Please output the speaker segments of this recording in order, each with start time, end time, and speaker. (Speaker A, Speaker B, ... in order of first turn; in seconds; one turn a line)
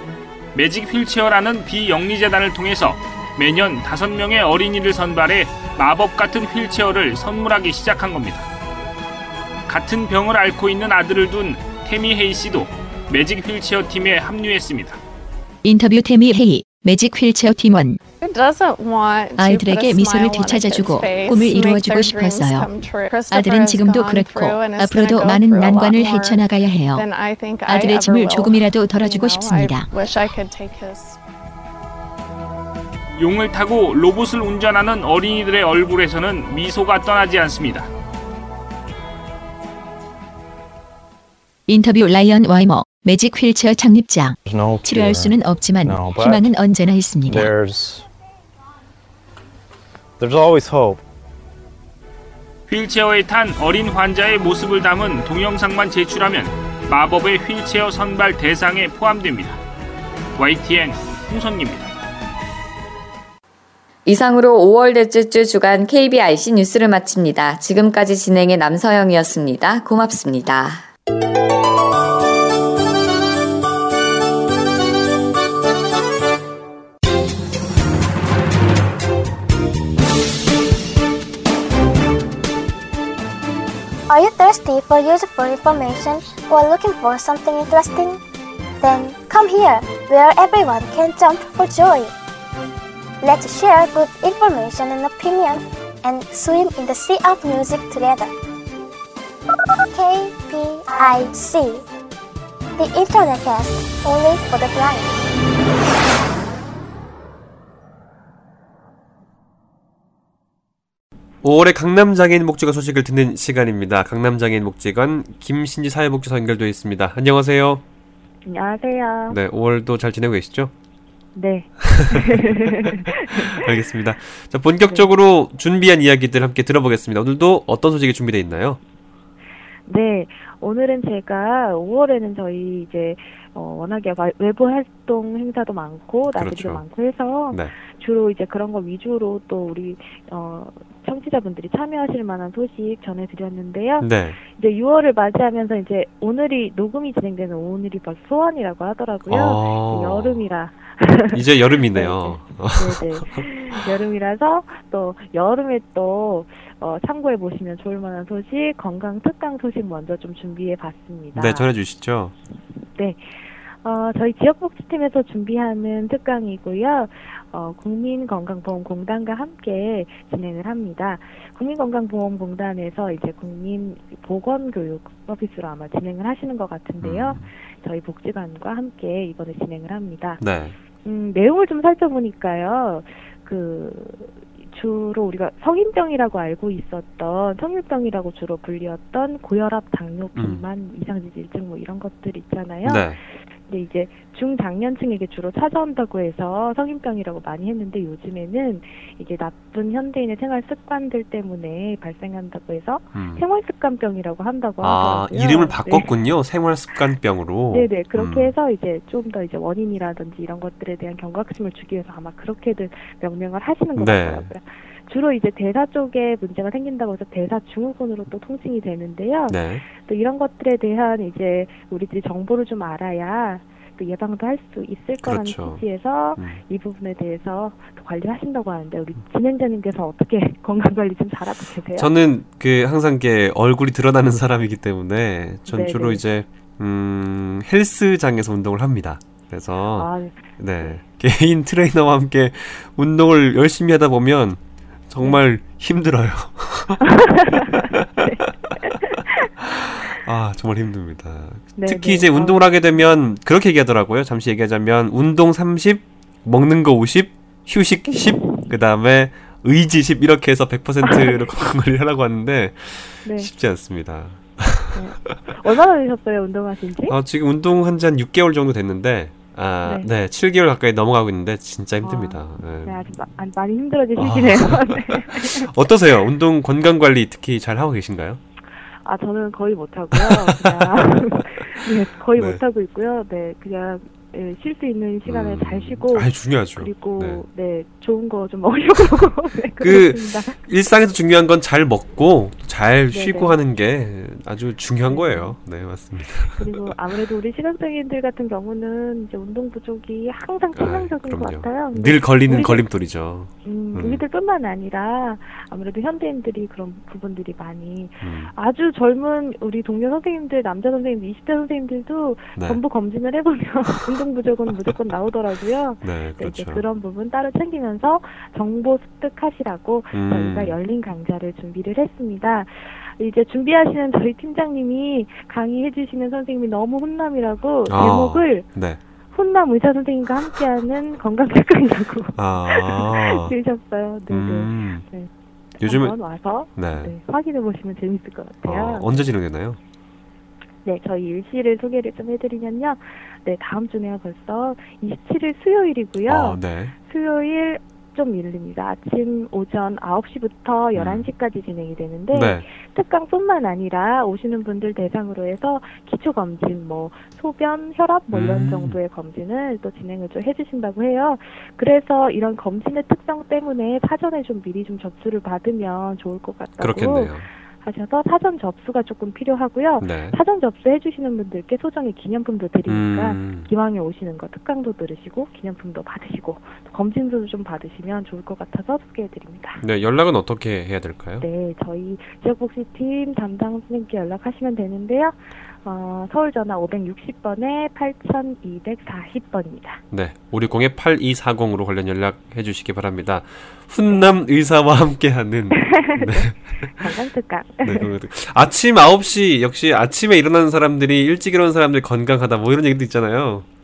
Speaker A: 0.5-8.5
Speaker A: 9.7-15.0
Speaker B: 15.6-18.0
Speaker C: 18.2-31.2
Speaker B: 19.4-22.7
Speaker B: 23.3-27.1
Speaker B: 27.7-29.9
Speaker A: 33.2-37.9
Speaker B: 41.7-47.5
Speaker D: 44.4-46.5
Speaker D: 47.3-48.1
Speaker D: 50.2-51.0
Speaker A: 52.7-59.6
Speaker A: 60.4-61.9
Speaker E: 64.0-70.9
Speaker F: 84.1-88.2
Speaker F: 88.8-92.1
Speaker F: 93.2-98.3
Speaker F: 99.9-101.8
Speaker F: 102.8-105.1
Speaker G: 111.4-117.8
Speaker H: 118.5-119.4
Speaker G: 119.3-120.7
Speaker H: 121.3-123.6
Speaker G: 121.8-122.4
Speaker G: 123.5-128.8
Speaker H: 129.9-161.7
Speaker G: 136.3-136.8
Speaker G: 144.0-144.4
Speaker G: 149.3-150.4
Speaker G: 151.3-153.4
Speaker G: 161.3-162.3
Speaker H: 162.9-163.2
Speaker H: 163.8-180.4
Speaker G: 177.0-177.5
Speaker G: 180.4-180.8
Speaker H: 181.0-206.1
Speaker G: 190.4-190.6
Speaker G: 192.8-193.2
Speaker G: 203.1-203.4
Speaker G: 204.8-208.5
Speaker H: 207.7-232.1
Speaker G: 214.0-214.5
Speaker G: 219.5-219.8
Speaker G: 225.2-225.8
Speaker G: 226.3-226.6
Speaker G: 232.0-247.1
Speaker H: 235.7-236.2
Speaker H: 239.9-241.0
Speaker H: 247.1-247.7
Speaker G: 247.9-248.2
Speaker H: 248.2-249.1
Speaker G: 250.2-265.4
Speaker H: 251.8-252.6
Speaker H: 258.1-258.7
Speaker H: 261.0-261.4
Speaker H: 263.2-263.5
Speaker H: 264.9-267.2
Speaker G: 267.1-273.1
Speaker H: 272.0-275.7
Speaker G: 274.2-278.4
Speaker H: 279.1-290.6
Speaker G: 280.1-281.6
Speaker G: 282.3-282.6
Speaker G: 285.3-287.4
Speaker G: 289.8-296.9
Speaker H: 293.1-293.6
Speaker H: 295.1-295.6
Speaker H: 296.6-302.9
Speaker G: 300.8-304.2
Speaker H: 303.6-328.7
Speaker G: 308.2-308.5
Speaker G: 316.0-316.8
Speaker G: 320.1-320.8
Speaker G: 327.9-329.0
Speaker H: 329.3-339.3
Speaker G: 332.4-333.5
Speaker G: 334.3-335.1
Speaker G: 335.8-336.2
Speaker G: 336.7-337.1
Speaker G: 338.6-339.8
Speaker H: 340.9-379.8
Speaker G: 346.3-346.9
Speaker G: 351.0-351.3
Speaker G: 352.3-352.6
Speaker G: 358.3-359.0
Speaker G: 366.8-367.5
Speaker G: 370.0-370.4
Speaker G: 372.9-373.7
Speaker G: 379.8-381.5
Speaker H: 381.4-390.0
Speaker G: 390.1-397.0
Speaker H: 394.1-394.4
Speaker H: 395.8-398.1
Speaker G: 397.8-403.7